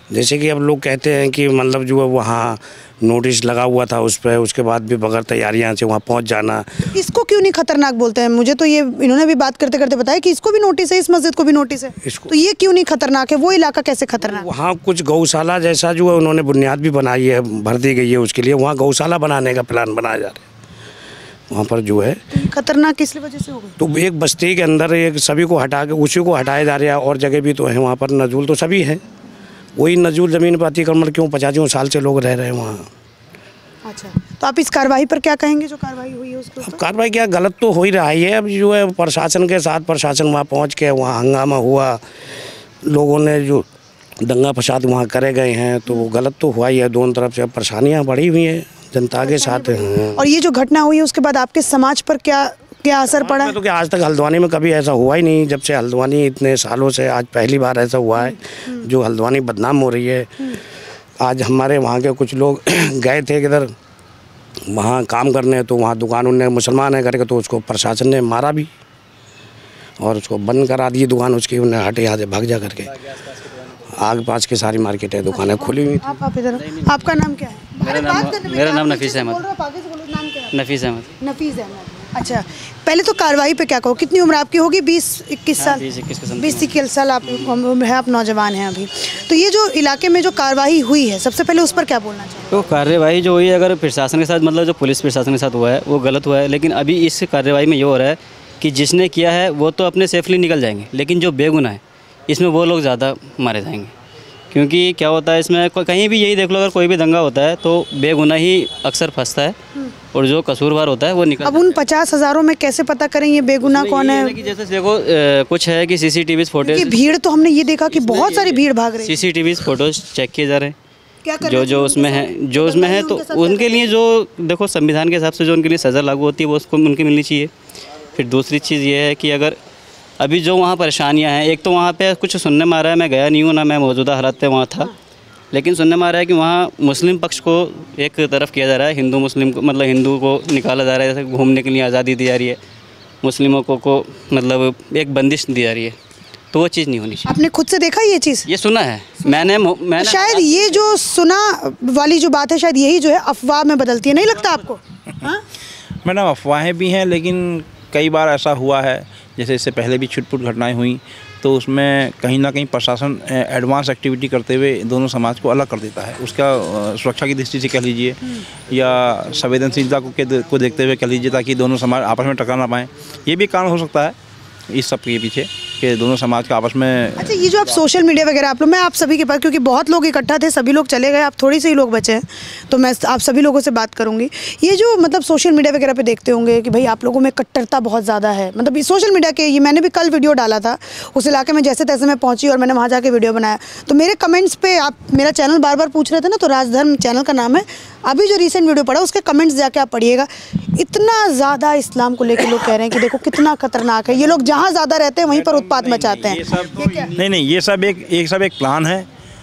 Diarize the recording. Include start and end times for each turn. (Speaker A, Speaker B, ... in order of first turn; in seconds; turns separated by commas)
Speaker A: 0.1-6.9, Speaker B: 6.9-14.4, Speaker A: 12.0-12.3, Speaker A: 14.2-20.4, Speaker A: 21.5-22.2, Speaker B: 22.3-23.8, Speaker A: 23.8-29.0, Speaker A: 29.8-32.9, Speaker B: 33.9-36.8, Speaker A: 36.6-42.0, Speaker A: 42.8-43.6, Speaker A: 44.2-50.2, Speaker B: 49.2-53.5, Speaker A: 53.1-60.3, Speaker B: 58.1-58.8, Speaker A: 61.2-63.7, Speaker A: 64.7-68.7, Speaker A: 70.0-73.0, Speaker A: 73.9-76.2, Speaker B: 75.3-80.5, Speaker C: 77.8-79.4, Speaker C: 80.5-81.1, Speaker B: 81.2-85.8, Speaker C: 85.5-86.7, Speaker B: 86.3-92.6, Speaker C: 92.5-103.9, Speaker C: 104.5-109.5, Speaker C: 110.1-111.6, Speaker B: 111.4-114.4, Speaker C: 113.6-117.0, Speaker B: 116.6-119.2, Speaker C: 117.9-120.7, Speaker B: 121.2-123.9, Speaker C: 121.4-127.5, Speaker C: 128.1-129.6, Speaker C: 130.2-134.9, Speaker C: 135.5-142.6, Speaker C: 143.2-145.9, Speaker C: 146.5-147.3, Speaker B: 147.2-148.5, Speaker C: 148.5-150.8, Speaker B: 150.0-155.4, Speaker D: 156.0-174.1, Speaker D: 174.7-177.4, Speaker B: 177.2-207.1, Speaker D: 205.3-209.1